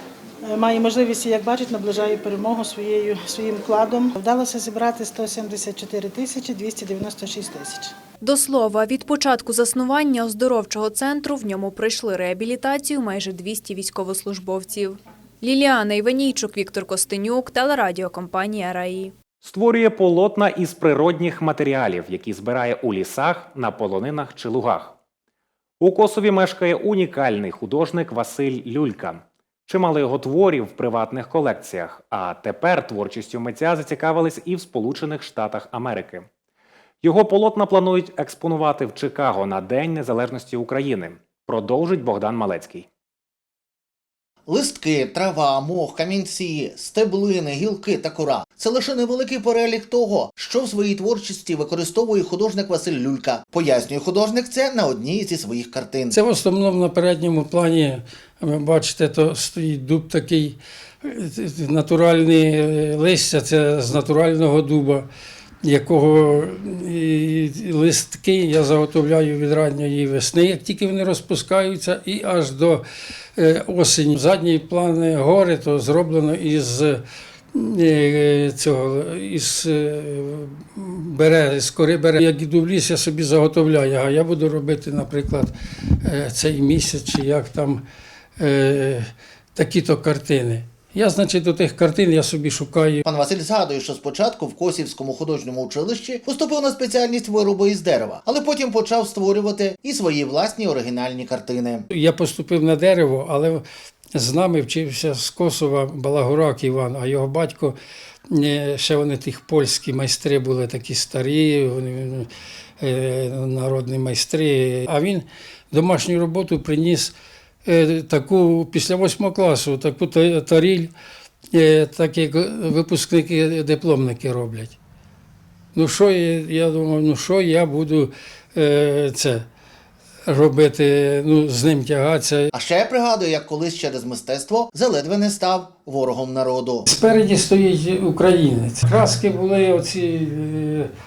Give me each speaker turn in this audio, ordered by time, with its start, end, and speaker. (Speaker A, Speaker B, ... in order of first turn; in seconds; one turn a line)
Speaker A: 0.4-7.9
Speaker B: 8.2-19.1
Speaker C: 19.4-24.9
Speaker C: 25.8-36.3
Speaker C: 37.0-42.9
Speaker D: 44.5-56.2
Speaker E: 56.1-65.1
Speaker E: 65.6-72.8
Speaker E: 73.4-77.0
Speaker E: 77.5-85.5
Speaker E: 86.0-87.8
Speaker E: 88.4-93.0
Speaker D: 93.0-101.9
Speaker E: 101.9-103.6
Speaker E: 104.2-107.8
Speaker E: 108.3-112.3
Speaker E: 112.8-117.1
Speaker E: 117.7-120.9
Speaker E: 121.5-124.8
Speaker E: 125.7-129.4
Speaker E: 130.3-132.5
Speaker D: 132.5-136.9
Speaker E: 136.9-140.9